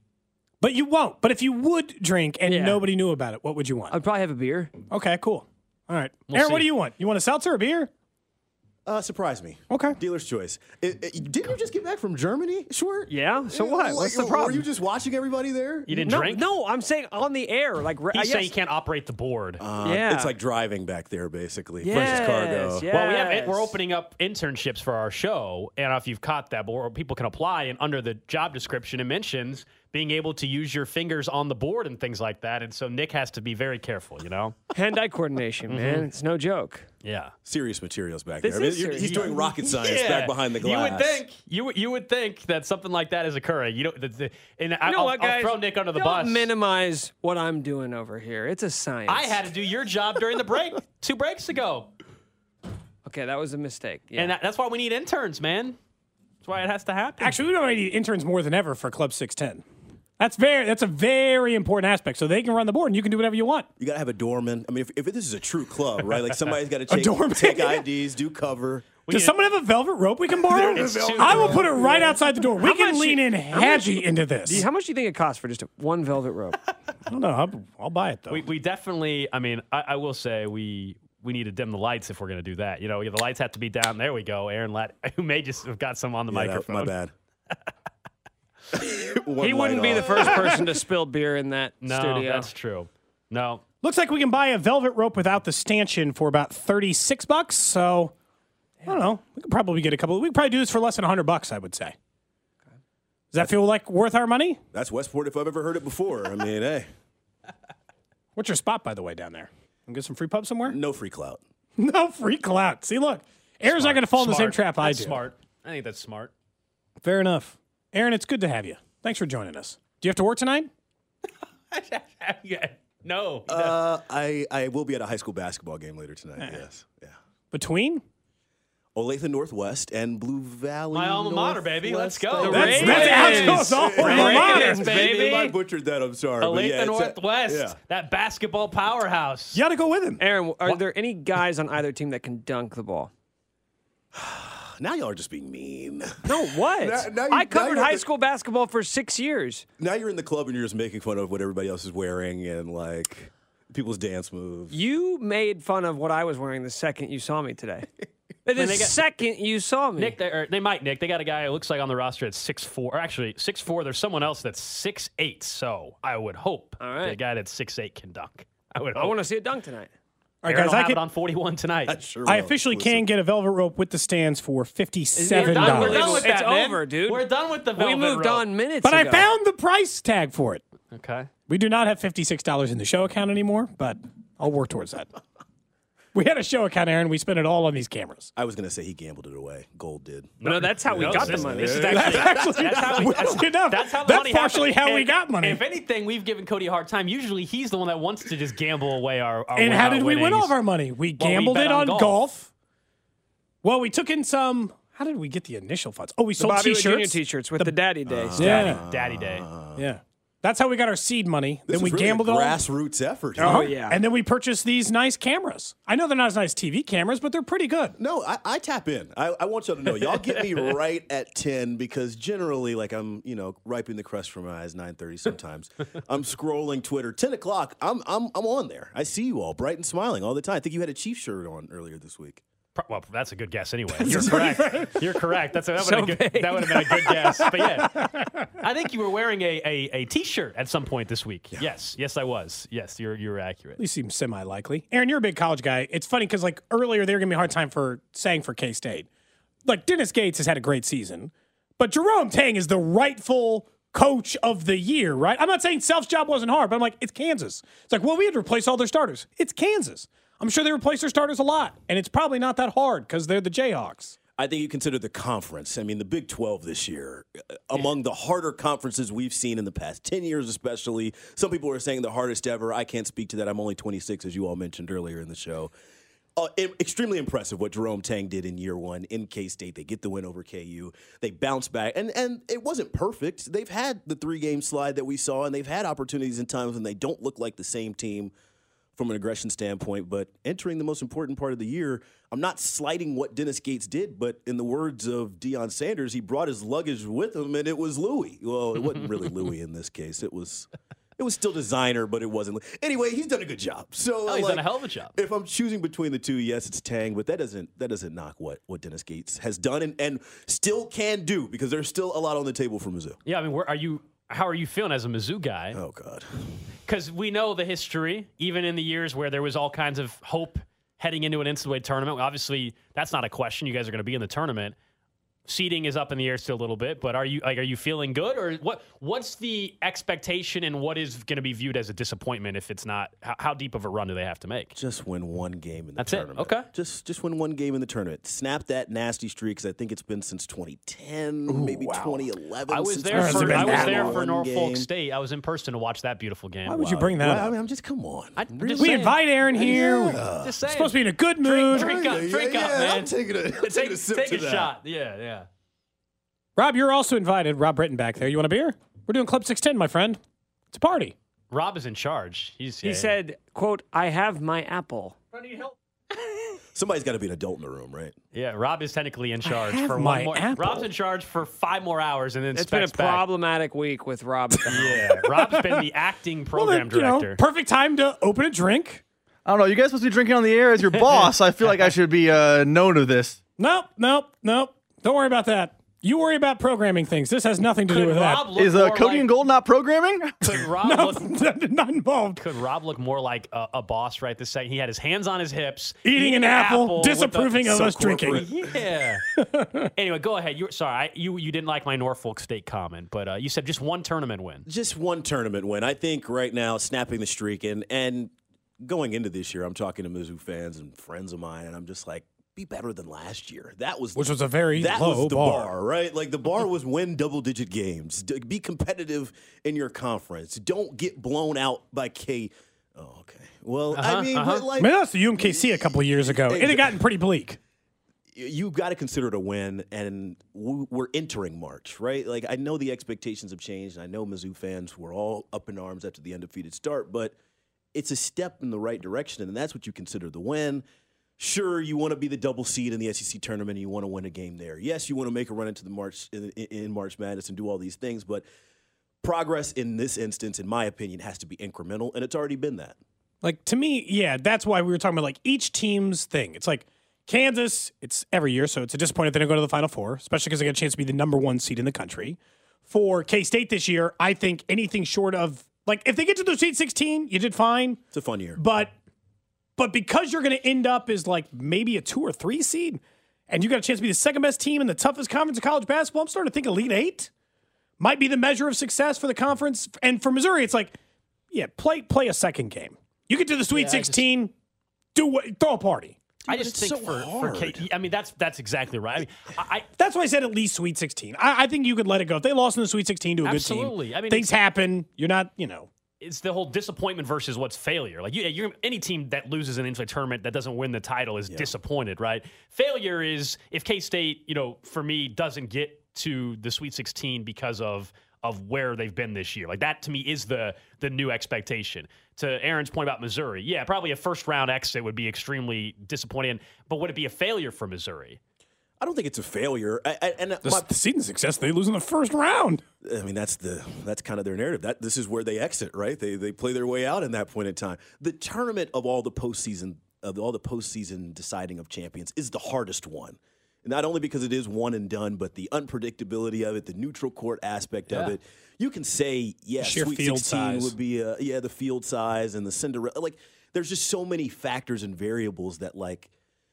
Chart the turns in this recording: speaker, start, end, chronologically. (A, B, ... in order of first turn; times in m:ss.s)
0:00.6-0:03.9 A
0:02.4-0:02.8 B
0:03.9-0:04.7 B
0:04.9-0:07.9 A
0:06.3-0:06.7 C
0:08.8-0:16.0 D
0:09.7-0:10.0 A
0:13.1-0:14.6 B
0:15.9-0:16.5 C
0:16.0-0:18.5 B
0:18.1-0:19.6 C
0:19.6-0:22.8 D
0:19.8-0:20.3 B
0:21.8-0:23.7 B
0:21.9-0:22.3 C
0:22.9-0:34.6 C
0:34.7-0:36.9 B
0:35.7-0:36.1 C
0:37.0-0:37.3 C
0:37.4-0:41.2 D
0:38.4-0:39.5 B
0:39.0-0:46.5 C
0:44.8-0:49.4 B
0:49.1-0:51.9 C
0:53.0-0:54.3 B
0:54.1-0:55.8 C
0:56.4-0:57.3 C
0:57.2-0:59.6 A
1:00.2-1:03.7 A
1:03.8-1:08.9 D
1:06.9-1:07.8 A
1:09.0-1:09.3 C
1:09.1-1:14.7 A
1:10.4-1:12.2 D
1:10.6-1:11.7 C
1:12.6-1:16.6 B
1:17.1-1:18.4 A
1:18.3-1:26.9 C
1:26.3-1:27.1 D
1:28.7-1:30.6 D
1:29.4-1:32.5 B
1:31.8-1:33.6 C
1:33.8-1:38.1 A
1:38.8-1:41.9 A
1:43.3-1:44.6 A
1:44.7-1:46.9 D
1:48.4-1:50.8 A
1:50.6-1:51.4 D
1:51.8-1:55.2 A
1:53.6-1:56.3 C
1:57.0-2:00.7 A
2:01.7-2:03.8 C
2:03.5-2:07.2 D
2:07.5-2:08.0 A
2:08.9-2:17.8 D
2:10.9-2:15.5 C
2:12.3-2:15.5 B
2:12.5-2:15.0 A
2:16.4-2:19.6 C
2:19.5-2:20.2 A
2:20.2-2:23.1 B
2:24.1-2:28.1 D
2:26.2-2:29.6 B
2:29.8-2:34.8 D
2:34.7-2:37.9 B
2:38.4-2:40.2 B
2:38.5-2:39.0 C
2:40.0-2:49.2 C
2:46.8-2:47.2 B
2:49.0-2:49.9 B
2:50.4-2:51.0 A
2:50.4-2:52.0 C
2:51.8-2:53.1 D
2:52.2-2:56.3 A
2:55.2-2:57.2 B
2:55.3-2:58.4 C
2:57.8-2:59.3 B
2:58.8-3:00.6 A
3:00.9-3:01.3 C
3:01.5-3:05.1 A
3:06.1-3:08.3 A
3:08.4-3:13.4 D
3:10.4-3:20.5 C
3:10.4-3:12.0 B
3:11.9-3:15.6 A
3:19.6-3:22.5 A
3:21.2-3:22.2 C
3:23.6-3:27.8 A
3:26.4-3:28.8 B
3:28.0-3:29.8 D
3:28.4-3:28.8 A
3:28.8-3:29.5 C
3:29.8-3:32.6 A
3:31.7-3:33.7 D
3:33.4-3:34.0 B
3:33.4-3:38.0 A
3:38.0-3:52.4 D
3:52.7-4:03.8 C
3:54.0-3:54.7 D
3:54.1-3:54.9 A
3:55.8-3:57.5 B
3:57.6-3:58.3 A
4:03.8-4:09.1 A
4:09.6-4:24.2 A
4:24.4-4:35.7 D
4:36.4-4:48.3 D
4:49.0-5:13.2 D
5:04.2-5:05.1 C
5:13.2-5:15.8 C
5:15.7-5:16.5 D
5:16.8-5:24.7 C
5:25.5-5:34.8 C
5:34.8-5:44.9 D
5:36.0-5:36.7 C
5:41.5-5:42.3 A
5:42.7-5:47.2 C
5:43.1-5:44.2 A
5:46.6-5:47.5 A
5:47.2-5:50.5 D
5:48.4-5:55.5 C
5:48.8-5:51.9 A
5:51.7-5:54.7 D
5:56.6-6:00.2 A
6:00.7-6:01.1 A
6:01.5-6:03.1 C
6:02.8-6:05.2 B
6:05.4-6:05.7 C
6:06.7-6:08.2 D
6:08.3-6:13.2 C
6:09.4-6:10.9 A
6:12.5-6:15.0 B
6:14.6-6:17.4 C
6:15.2-6:15.8 A
6:16.5-6:19.0 A
6:19.4-6:23.4 E
6:20.9-6:21.9 C
6:23.6-6:28.5 A
6:27.9-6:29.5 C
6:28.5-6:30.6 E
6:30.4-6:31.3 C
6:30.8-6:32.4 A
6:32.4-6:39.2 C
6:36.0-6:38.4 A
6:37.6-6:38.8 D
6:39.4-6:39.9 A
6:40.0-6:44.6 C
6:44.6-7:07.0 D
6:54.2-6:55.7 A
7:03.9-7:04.6 C
7:04.8-7:07.6 A
7:08.3-7:17.4 D
7:17.9-7:20.8 D
7:21.4-7:28.4 D
7:29.2-7:33.0 D
7:33.4-7:48.0 A
7:48.1-7:48.6 D
7:48.6-7:48.9 A
7:49.8-7:57.3 A
7:58.0-8:01.0 A
8:01.5-8:04.5 A
8:03.7-8:04.3 C
8:05.1-8:06.2 A
8:06.4-8:07.8 D
8:06.5-8:09.9 C
8:10.0-8:15.9 A
8:13.4-8:14.6 C
8:16.2-8:38.4 C
8:39.0-8:40.9 D
8:40.6-8:42.8 A
8:43.0-9:06.3 D
8:59.8-9:00.9 A